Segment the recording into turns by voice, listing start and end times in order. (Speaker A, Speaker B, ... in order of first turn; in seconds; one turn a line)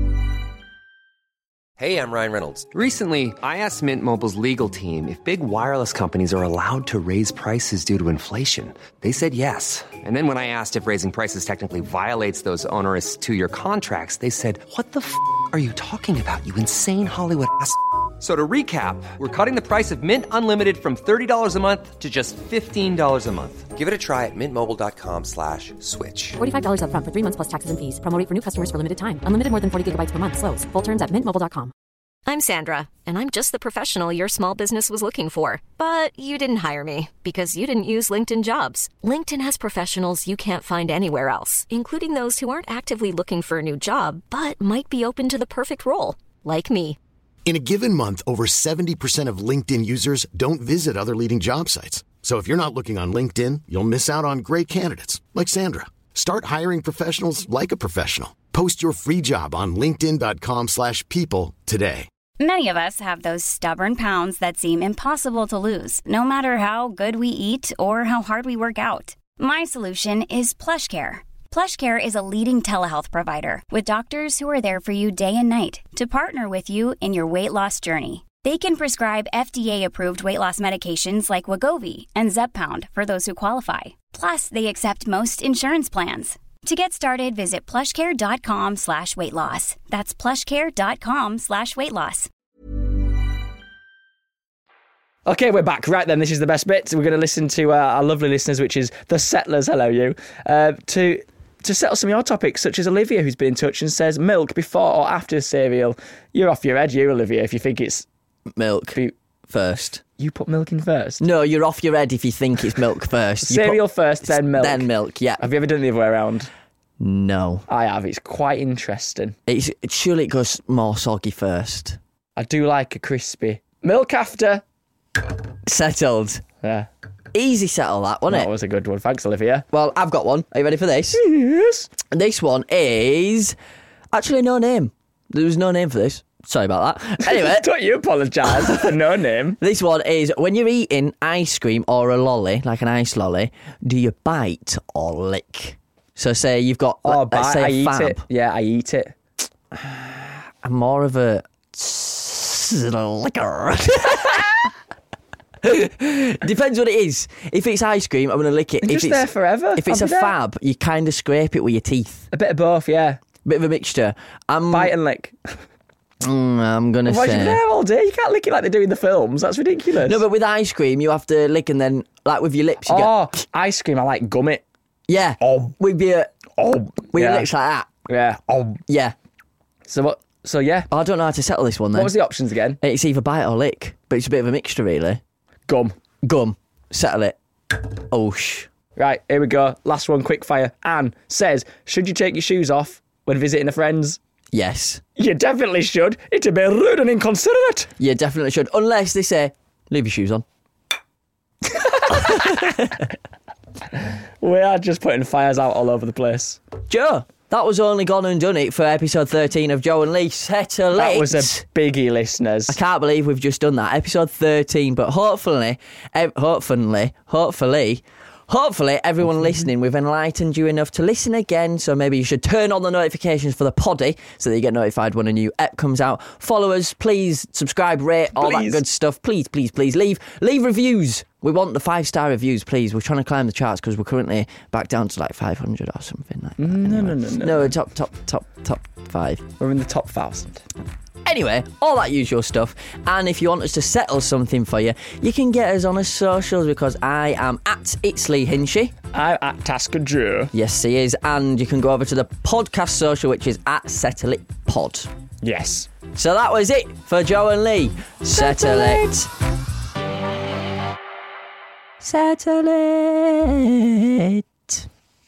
Speaker A: 1.8-26.4
Speaker B: 26.4-31.7
Speaker C: 32.2-47.0
Speaker D: 47.5-62.1
Speaker E: 62.4-92.3
Speaker F: 95.2-108.0
Speaker G: 108.5-110.0
Speaker F: 110.2-111.2
Speaker G: 111.2-115.5
Speaker F: 113.4-114.9
Speaker F: 115.4-116.5
Speaker G: 117.0-117.6
Speaker F: 117.7-119.3
Speaker G: 119.5-122.0
Speaker F: 122.4-124.6
Speaker G: 125.6-126.4
Speaker F: 126.6-126.9
Speaker G: 127.3-128.5
Speaker F: 128.3-129.7
Speaker G: 129.7-131.2
Speaker F: 131.1-131.9
Speaker G: 132.1-133.6
Speaker G: 134.1-137.7
Speaker F: 137.2-139.6
Speaker G: 138.5-138.9
Speaker G: 139.6-148.2
Speaker F: 147.0-149.2
Speaker G: 149.7-154.7
Speaker G: 155.6-162.3
Speaker F: 158.8-160.3
Speaker F: 162.3-163.2
Speaker G: 163.4-164.9
Speaker F: 164.7-165.6
Speaker G: 166.2-167.6
Speaker F: 167.0-170.2
Speaker G: 170.0-173.1
Speaker F: 172.8-174.6
Speaker G: 175.1-177.9
Speaker F: 175.4-175.7
Speaker F: 176.6-177.5
Speaker F: 178.1-178.8
Speaker G: 178.9-179.1
Speaker F: 179.9-180.9
Speaker G: 180.9-182.2
Speaker F: 181.9-182.8
Speaker G: 182.8-185.2
Speaker F: 185.7-186.0
Speaker G: 186.2-188.7
Speaker F: 189.0-194.2
Speaker G: 194.5-195.0
Speaker F: 195.2-197.9
Speaker G: 198.0-200.4
Speaker F: 201.7-202.8
Speaker G: 202.1-203.0
Speaker F: 204.4-206.6
Speaker G: 206.9-211.6
Speaker F: 210.9-212.8
Speaker G: 212.7-239.4
Speaker F: 228.3-228.8
Speaker F: 236.6-237.7
Speaker F: 239.6-240.6
Speaker G: 241.2-248.9
Speaker F: 249.1-250.5
Speaker G: 250.5-255.1
Speaker F: 255.4-255.9
Speaker G: 256.1-259.3
Speaker F: 258.3-259.2
Speaker G: 262.0-264.9